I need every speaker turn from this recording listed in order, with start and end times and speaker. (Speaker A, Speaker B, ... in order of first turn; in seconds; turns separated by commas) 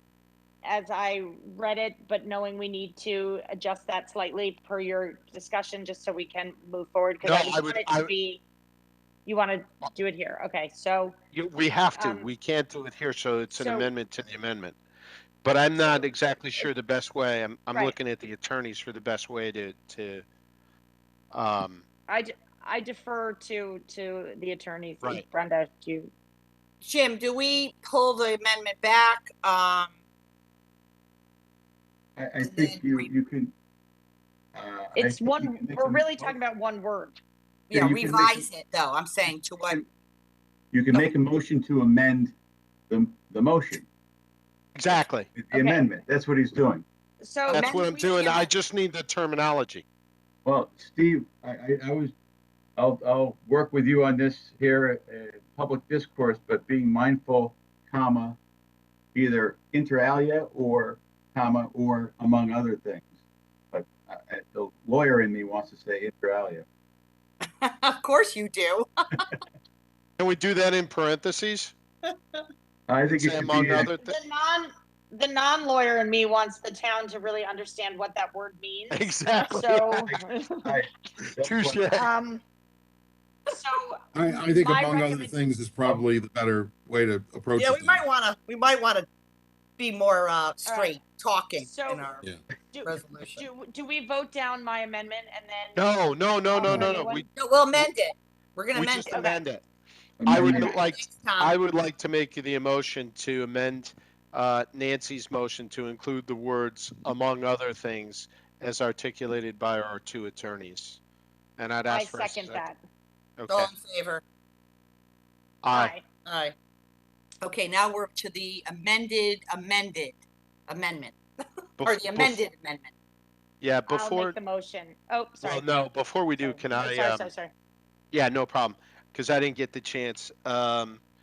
Speaker A: 0.6-8.4, Speaker B: 7.2-8.1, Speaker A: 9.2-11.1, Speaker B: 11.3-14.8, Speaker A: 11.9-12.3, Speaker A: 13.5-13.9, Speaker B: 15.4-20.2, Speaker B: 21.3-21.8, Speaker A: 22.1-26.1, Speaker C: 26.8-29.9, Speaker D: 32.2-33.5, Speaker C: 32.4-33.1, Speaker D: 34.5-36.4, Speaker A: 34.9-37.2, Speaker C: 37.7-39.8, Speaker D: 37.7-38.5, Speaker D: 40.7-42.3, Speaker D: 42.9-43.9, Speaker B: 44.7-45.3, Speaker D: 45.3-46.8, Speaker A: 45.5-45.8, Speaker A: 47.2-48.5, Speaker B: 47.5-49.8, Speaker D: 50.4-52.1, Speaker D: 52.8-58.4, Speaker D: 59.1-63.1, Speaker D: 63.7-66.6, Speaker C: 67.6-68.9, Speaker B: 70.2-71.7, Speaker D: 72.9-73.9, Speaker B: 73.1-74.2, Speaker A: 73.9-80.7, Speaker B: 78.9-80.2, Speaker D: 80.1-81.9, Speaker B: 81.4-82.1, Speaker A: 81.9-82.4, Speaker A: 83.5-85.4, Speaker E: 84.1-88.0, Speaker C: 87.6-89.1, Speaker C: 89.8-92.2, Speaker A: 90.7-91.0, Speaker A: 91.6-92.0, Speaker A: 92.7-95.8, Speaker C: 92.8-93.4, Speaker B: 95.7-97.2, Speaker A: 96.5-97.2, Speaker C: 97.3-99.2, Speaker B: 98.7-99.6, Speaker A: 99.1-99.4, Speaker D: 100.2-100.8, Speaker B: 100.2-111.0, Speaker C: 100.5-101.5, Speaker B: 111.6-112.6, Speaker A: 111.9-112.8, Speaker B: 113.4-113.7, Speaker C: 113.5-114.2, Speaker B: 115.6-115.9, Speaker A: 115.7-116.0, Speaker C: 116.2-116.5, Speaker C: 117.4-120.2, Speaker C: 120.7-121.1, Speaker B: 121.8-122.4, Speaker C: 121.8-122.9, Speaker B: 123.6-124.3, Speaker A: 123.9-125.7, Speaker B: 125.4-127.3, Speaker A: 126.4-127.5, Speaker B: 128.1-131.0